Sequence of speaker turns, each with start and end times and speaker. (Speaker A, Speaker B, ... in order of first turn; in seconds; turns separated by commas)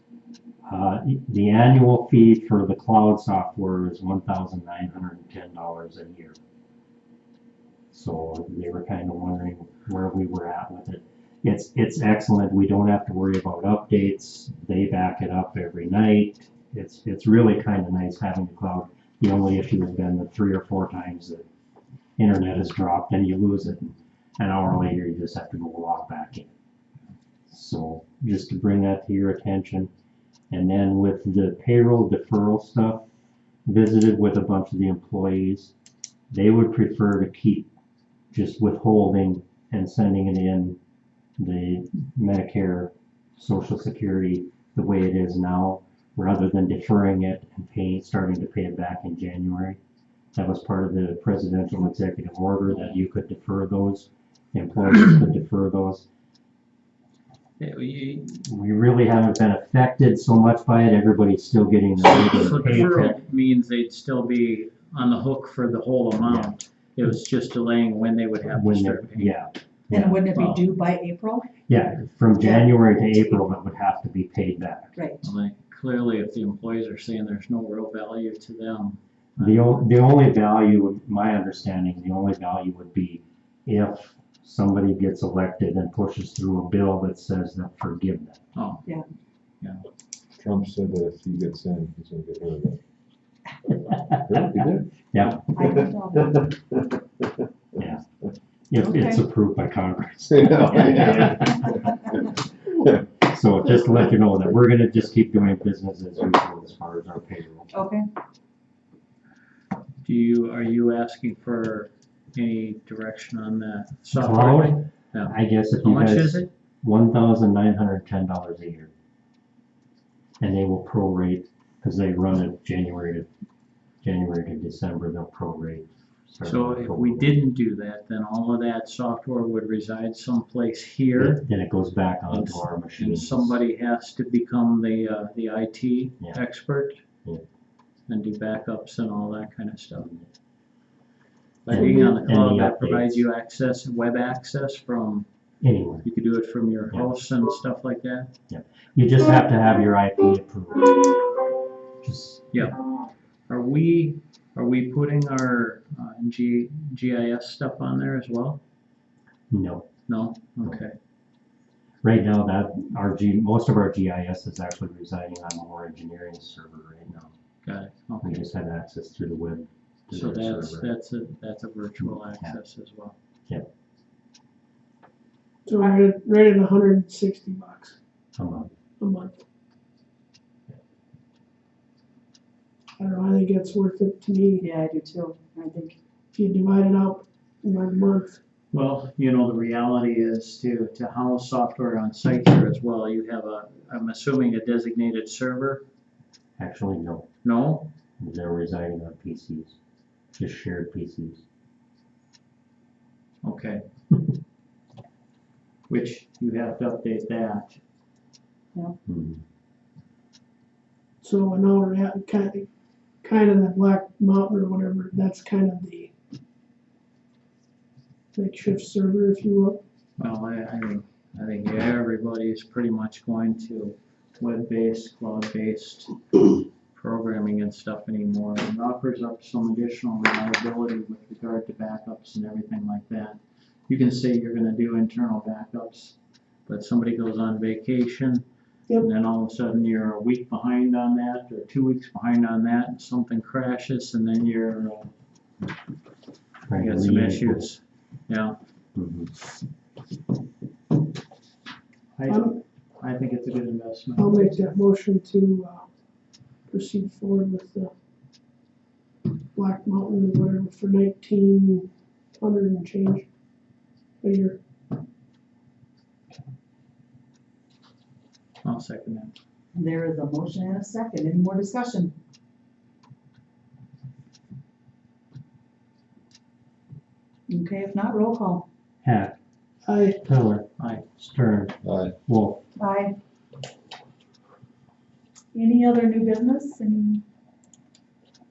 Speaker A: 0.6-6.4, Speaker A: 7.9-21.5, Speaker A: 22.2-26.5, Speaker A: 27.5-29.9, Speaker A: 30.5-33.0, Speaker A: 33.7-35.7, Speaker A: 36.3-37.7, Speaker A: 38.3-40.8, Speaker A: 41.4-49.8, Speaker A: 50.4-56.1, Speaker B: 52.7-53.0, Speaker B: 57.6-58.4, Speaker A: 58.4-63.2, Speaker B: 62.0-69.4, Speaker A: 66.2-66.5, Speaker A: 68.4-70.3, Speaker C: 69.9-71.5, Speaker B: 70.2-70.6, Speaker A: 71.7-75.0, Speaker C: 72.4-73.4, Speaker B: 75.2-79.8, Speaker A: 79.4-88.4, Speaker B: 88.5-88.9, Speaker D: 90.3-92.8, Speaker A: 93.8-94.4, Speaker D: 93.9-97.0, Speaker A: 95.1-95.4, Speaker C: 95.5-96.4, Speaker A: 97.8-98.0, Speaker A: 98.7-101.7, Speaker C: 98.8-99.2, Speaker D: 100.3-101.9, Speaker D: 102.7-103.0, Speaker A: 103.1-107.7, Speaker C: 107.7-108.1, Speaker B: 110.0-116.5, Speaker A: 114.1-118.9, Speaker A: 120.4-123.3, Speaker A: 124.0-127.3, Speaker B: 126.4-131.5, Speaker A: 131.2-133.6, Speaker B: 132.3-137.0, Speaker B: 138.1-140.1, Speaker A: 140.0-140.3, Speaker B: 141.7-145.3, Speaker A: 141.7-143.2, Speaker E: 141.7-142.2, Speaker A: 145.6-146.1, Speaker B: 146.0-148.3, Speaker A: 148.5-151.2, Speaker A: 152.0-152.7, Speaker B: 152.5-152.8, Speaker B: 153.5-158.6, Speaker A: 159.5-159.9, Speaker B: 160.1-161.0, Speaker A: 162.0-167.3, Speaker B: 167.6-168.5, Speaker A: 168.2-170.9, Speaker B: 170.1-173.2, Speaker A: 172.0-172.6, Speaker E: 175.7-178.0, Speaker A: 178.3-178.7, Speaker E: 179.0-179.4, Speaker E: 183.0-184.6, Speaker C: 184.6-186.0, Speaker E: 186.3-188.4, Speaker B: 188.7-195.8, Speaker A: 196.6-197.3, Speaker B: 197.4-197.9, Speaker A: 198.2-199.8, Speaker A: 200.4-201.4, Speaker B: 203.4-203.8, Speaker B: 205.9-207.8, Speaker A: 209.1-209.4, Speaker E: 211.2-212.7, Speaker E: 213.2-216.1, Speaker E: 218.3-219.8, Speaker B: 220.2-238.5, Speaker B: 239.0-245.1, Speaker A: 246.7-247.7, Speaker B: 246.8-248.6, Speaker A: 248.9-249.3, Speaker B: 252.2-254.7, Speaker E: 252.3-252.6, Speaker E: 254.2-255.9, Speaker E: 256.7-257.9, Speaker E: 259.6-263.3, Speaker E: 264.2-264.6, Speaker B: 268.6-269.4, Speaker C: 269.7-272.1, Speaker C: 277.5-278.7, Speaker A: 279.0-279.4, Speaker E: 279.9-280.2, Speaker A: 280.2-282.6, Speaker B: 280.8-281.1, Speaker D: 281.8-282.1, Speaker C: 282.8-283.2, Speaker C: 285.5-287.2